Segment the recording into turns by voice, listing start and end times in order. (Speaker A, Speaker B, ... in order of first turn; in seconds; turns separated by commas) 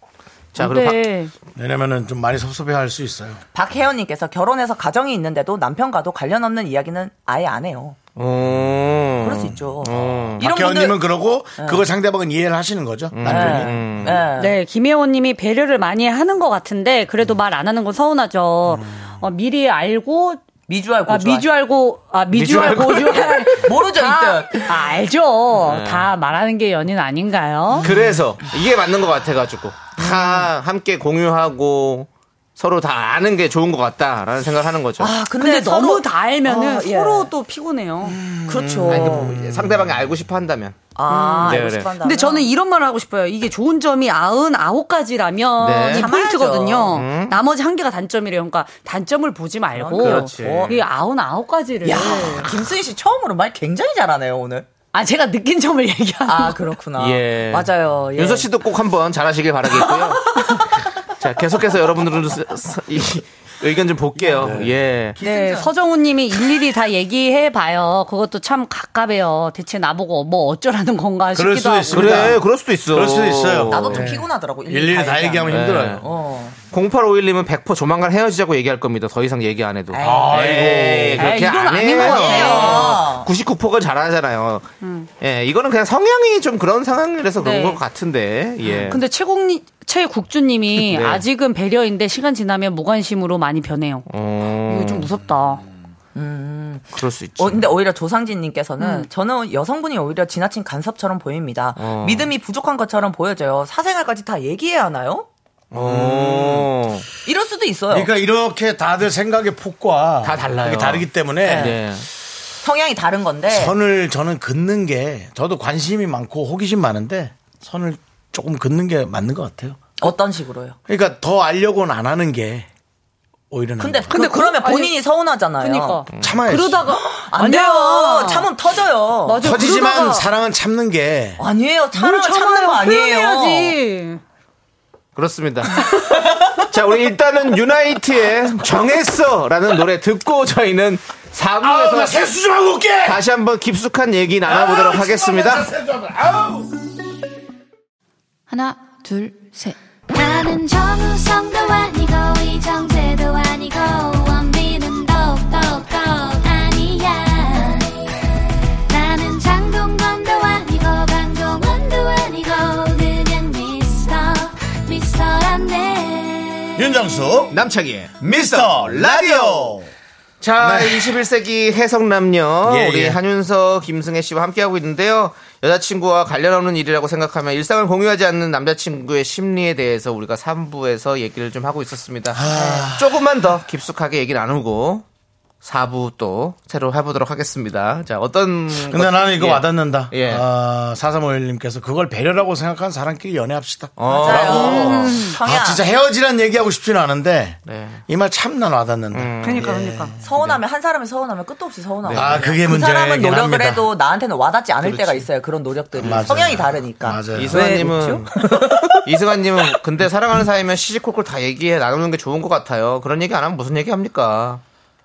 Speaker A: 0.5-1.1, Speaker B: 0.6-1.3, Speaker C: 1.6-3.4, Speaker D: 3.5-8.0, Speaker A: 8.2-10.4, Speaker D: 9.2-11.8, Speaker C: 10.1-14.1, Speaker A: 13.1-14.2, Speaker D: 13.2-14.6, Speaker B: 14.4-20.4, Speaker D: 20.7-21.5, Speaker B: 21.1-27.8, Speaker A: 22.3-23.4, Speaker D: 23.1-24.9, Speaker A: 25.6-26.1, Speaker A: 27.8-35.1, Speaker D: 30.0-30.5, Speaker D: 35.0-37.3, Speaker B: 35.4-38.2, Speaker D: 38.3-39.4, Speaker A: 38.8-40.8, Speaker C: 38.9-40.0, Speaker D: 40.9-42.5, Speaker B: 41.1-52.5, Speaker A: 41.4-41.9, Speaker A: 45.6-46.2, Speaker D: 45.8-47.0, Speaker A: 46.8-47.4, Speaker D: 49.7-50.8, Speaker A: 50.0-50.8, Speaker D: 51.8-54.7, Speaker B: 54.9-56.6, Speaker D: 56.2-58.5, Speaker A: 57.0-60.6, Speaker A: 61.2-65.2, Speaker D: 64.2-64.6, Speaker C: 64.4-64.8, Speaker D: 65.2-65.7, Speaker B: 65.2-72.3, Speaker D: 66.3-66.6, Speaker C: 71.3-76.0, Speaker A: 71.9-74.1, Speaker D: 73.7-76.5, Speaker A: 75.5-76.0, Speaker A: 76.7-84.7, Speaker D: 79.9-81.1, Speaker C: 80.0-81.3, Speaker B: 81.2-83.0, Speaker D: 81.9-83.3, Speaker B: 84.8-85.1, Speaker A: 85.2-89.0, Speaker B: 87.4-87.8, Speaker B: 88.7-94.1, Speaker A: 90.7-91.2, Speaker A: 94.1-95.1, Speaker B: 94.7-95.6, Speaker D: 96.1-105.3, Speaker A: 96.9-97.7, Speaker B: 98.8-99.1, Speaker A: 101.8-102.3, Speaker A: 105.7-107.0, Speaker C: 105.8-106.7, Speaker D: 107.2-108.1, Speaker C: 107.9-111.8, Speaker A: 110.2-112.1, Speaker D: 111.4-111.8, Speaker D: 112.6-113.8, Speaker C: 113.5-119.8, Speaker D: 120.0-120.8, Speaker C: 120.9-122.7, Speaker C: 123.5-124.2, Speaker D: 123.8-126.0, Speaker B: 124.1-125.0, Speaker B: 125.6-128.5, Speaker A: 126.1-126.4, Speaker C: 126.2-126.9, Speaker D: 126.8-129.4, Speaker B: 129.2-130.3, Speaker C: 129.4-131.4, Speaker D: 131.4-133.8, Speaker B: 131.9-134.2, Speaker A: 135.1-135.9, Speaker A: 136.5-142.3, Speaker C: 141.6-143.2, Speaker A: 143.0-145.7, Speaker C: 144.4-146.7, Speaker E: 148.5-158.0, Speaker E: 158.9-166.8, Speaker C: 166.8-167.6, Speaker A: 167.5-169.8, Speaker C: 168.2-169.9, Speaker A: 170.4-185.0, Speaker C: 170.6-171.1, Speaker C: 172.6-173.2, Speaker C: 182.3-183.2, Speaker A: 185.6-190.4, Speaker C: 188.8-200.1, Speaker A: 194.0-195.1, Speaker D: 194.1-195.9, Speaker B: 194.8-195.3, Speaker A: 197.7-198.0, Speaker A: 199.1-199.8, Speaker B: 199.4-200.1, Speaker D: 200.2-209.1, Speaker A: 200.3-200.6, Speaker A: 202.0-202.6, Speaker C: 202.1-203.9, Speaker A: 204.8-205.3, Speaker C: 206.0-207.9, Speaker A: 206.0-206.4, Speaker A: 207.3-214.6